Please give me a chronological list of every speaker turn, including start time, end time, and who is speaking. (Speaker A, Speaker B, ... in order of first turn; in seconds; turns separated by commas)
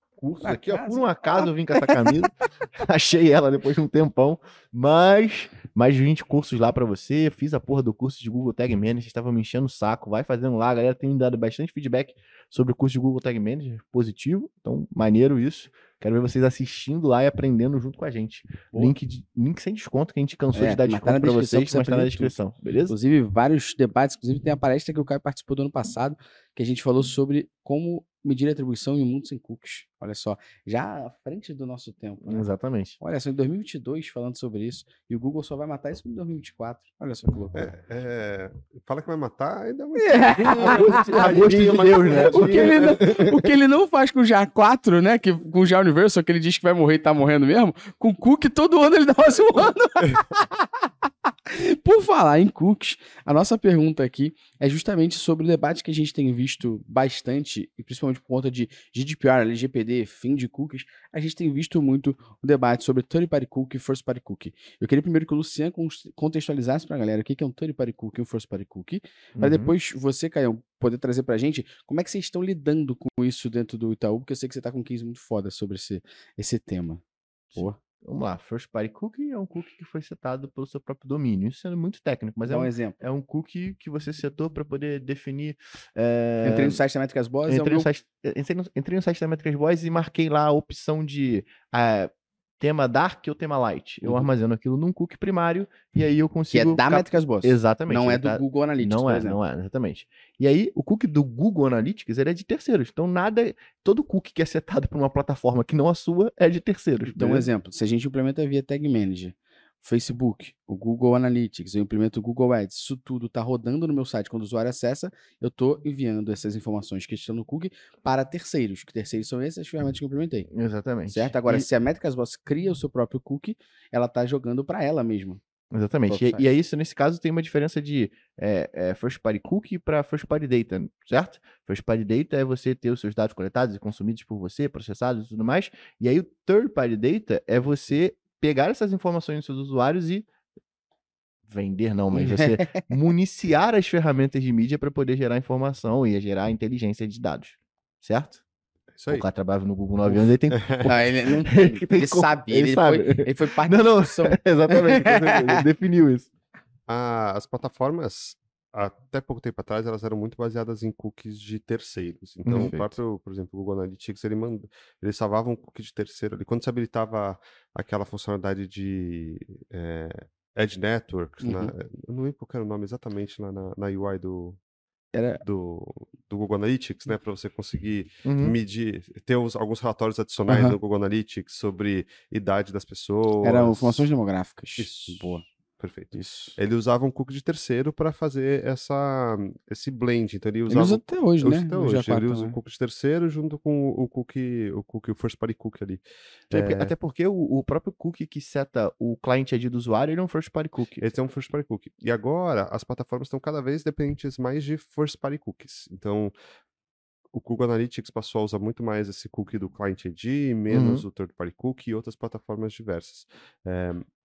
Speaker A: 0.4-22.9, Speaker B: 0.4-2.1, Speaker B: 20.5-22.4, Speaker B: 22.9-32.5, Speaker A: 32.2-33.0, Speaker B: 33.0-37.7, Speaker C: 37.5-43.2, Speaker B: 40.0-41.5, Speaker A: 40.4-43.5, Speaker B: 42.1-50.7, Speaker B: 51.5-77.0, Speaker A: 69.4-69.8, Speaker A: 77.5-86.8, Speaker B: 82.5-83.0, Speaker B: 86.4-87.9, Speaker A: 87.5-107.5, Speaker B: 94.0-94.3, Speaker B: 96.5-99.4, Speaker B: 107.0-120.5, Speaker A: 120.5-121.7, Speaker B: 121.1-125.4, Speaker A: 125.7-140.3, Speaker B: 126.1-126.5, Speaker A: 141.5-148.4, Speaker B: 142.1-142.9, Speaker C: 149.0-149.3, Speaker A: 149.1-156.3, Speaker C: 150.1-150.9, Speaker B: 150.8-155.6, Speaker C: 156.9-174.6, Speaker A: 162.4-162.7, Speaker B: 162.6-162.9, Speaker B: 171.4-171.7, Speaker B: 175.1-175.4, Speaker C: 175.4-184.1, Speaker A: 178.2-178.6, Speaker B: 180.5-180.8, Speaker B: 183.4-185.4, Speaker C: 184.8-196.9, Speaker B: 186.1-186.6, Speaker B: 190.7-192.6, Speaker A: 196.5-201.1, Speaker C: 201.0-206.3, Speaker C: 207.3-214.1, Speaker A: 210.7-211.1